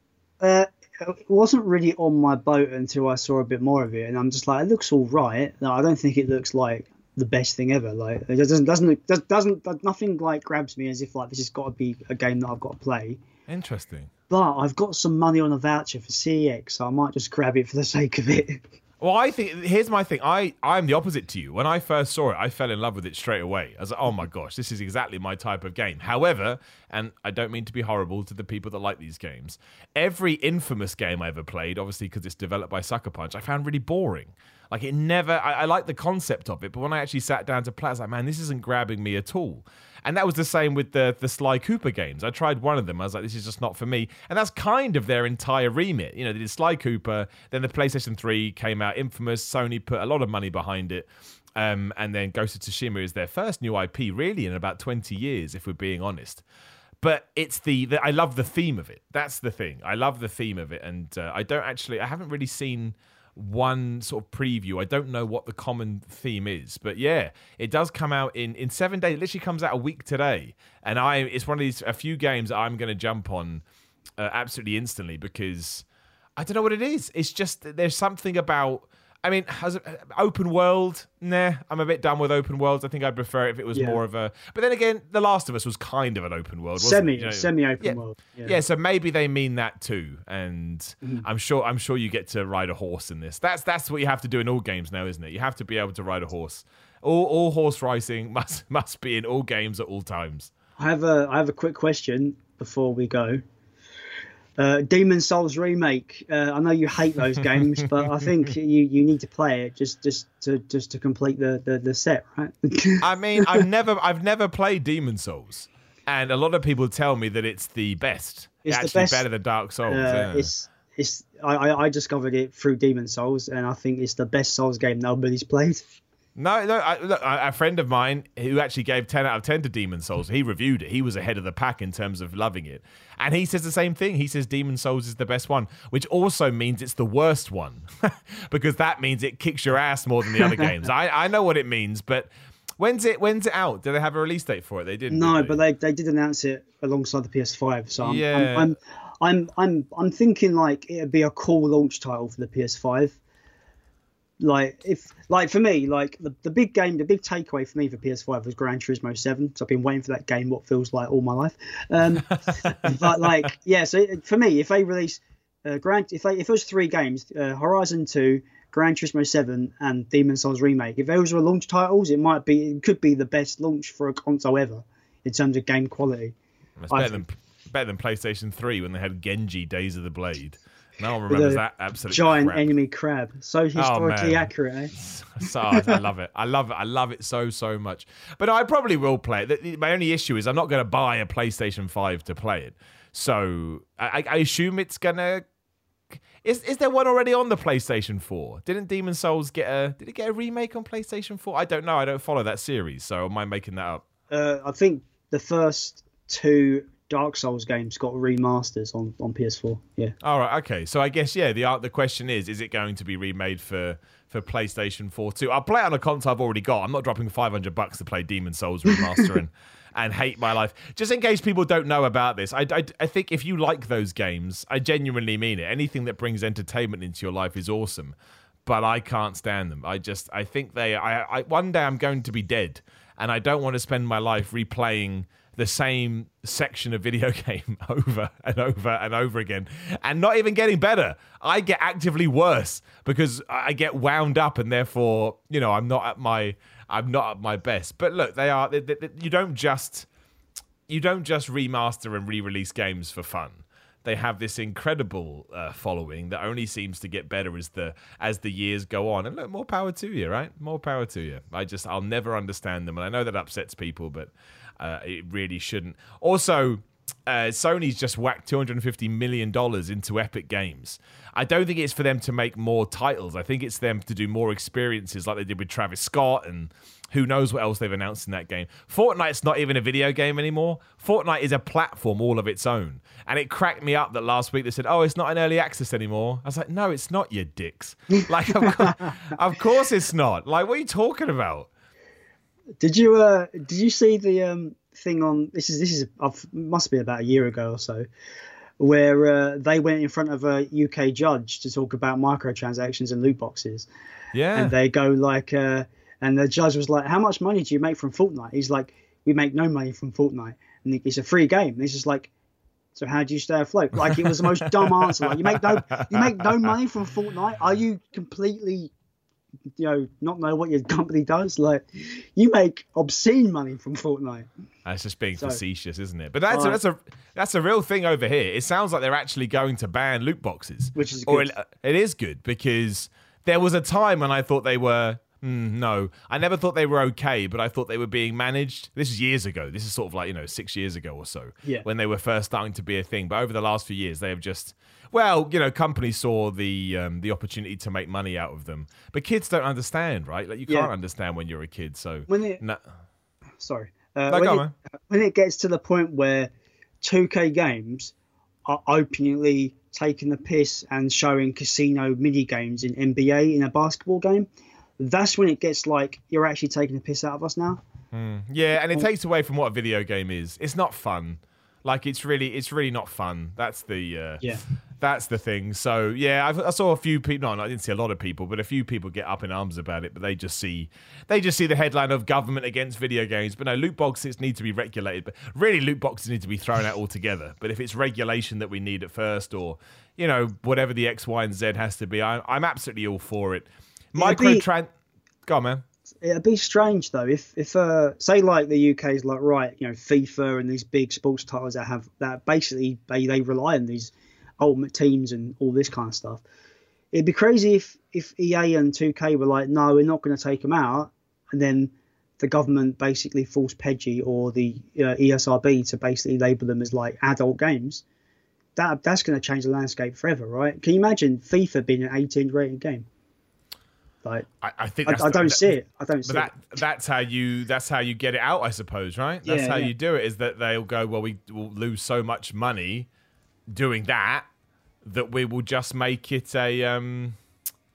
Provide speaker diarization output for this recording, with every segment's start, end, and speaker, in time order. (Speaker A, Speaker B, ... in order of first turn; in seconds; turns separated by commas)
Speaker A: 0.4-13.2, Speaker B: 13.5-14.1, Speaker A: 14.3-18.6, Speaker B: 19.0-56.4, Speaker B: 57.0-73.6, Speaker B: 74.2-75.8, Speaker B: 76.4-100.5, Speaker A: 83.7-84.0, Speaker A: 86.8-88.5, Speaker A: 100.8-103.4, Speaker A: 104.6-113.6, Speaker B: 107.4-108.1, Speaker B: 113.0-120.5, Speaker A: 118.6-119.2, Speaker A: 119.9-125.8, Speaker B: 126.3-145.6, Speaker A: 140.4-140.9, Speaker A: 145.1-153.2, Speaker B: 148.0-148.7, Speaker A: 154.4-176.3, Speaker B: 162.1-163.2, Speaker B: 176.8-182.6, Speaker A: 176.9-177.2, Speaker A: 181.3-184.9, Speaker B: 183.7-195.4, Speaker A: 185.4-186.0, Speaker B: 196.4-204.0, Speaker A: 204.3-210.2, Speaker B: 210.2-250.1, Speaker B: 250.9-291.7, Speaker A: 288.6-289.2, Speaker A: 292.8-298.1, Speaker A: 298.8-303.9, Speaker B: 304.3-304.7, Speaker A: 304.5-312.3, Speaker A: 312.9-318.9, Speaker B: 314.1-316.7, Speaker A: 319.8-324.5, Speaker B: 324.8-352.8, Speaker A: 326.5-326.8, Speaker A: 330.9-331.5, Speaker A: 350.7-350.9, Speaker A: 352.3-352.6, Speaker A: 353.6-356.5, Speaker B: 354.3-354.7, Speaker A: 357.0-358.1, Speaker A: 358.6-364.5, Speaker A: 365.0-367.8, Speaker B: 368.1-394.9, Speaker A: 394.2-394.6, Speaker B: 395.5-395.8, Speaker A: 396.2-406.4, Speaker A: 407.1-418.0, Speaker A: 418.8-423.1, Speaker B: 424.6-433.1, Speaker A: 425.1-426.5, Speaker A: 429.4-429.9, Speaker B: 433.7-434.5, Speaker B: 435.0-437.4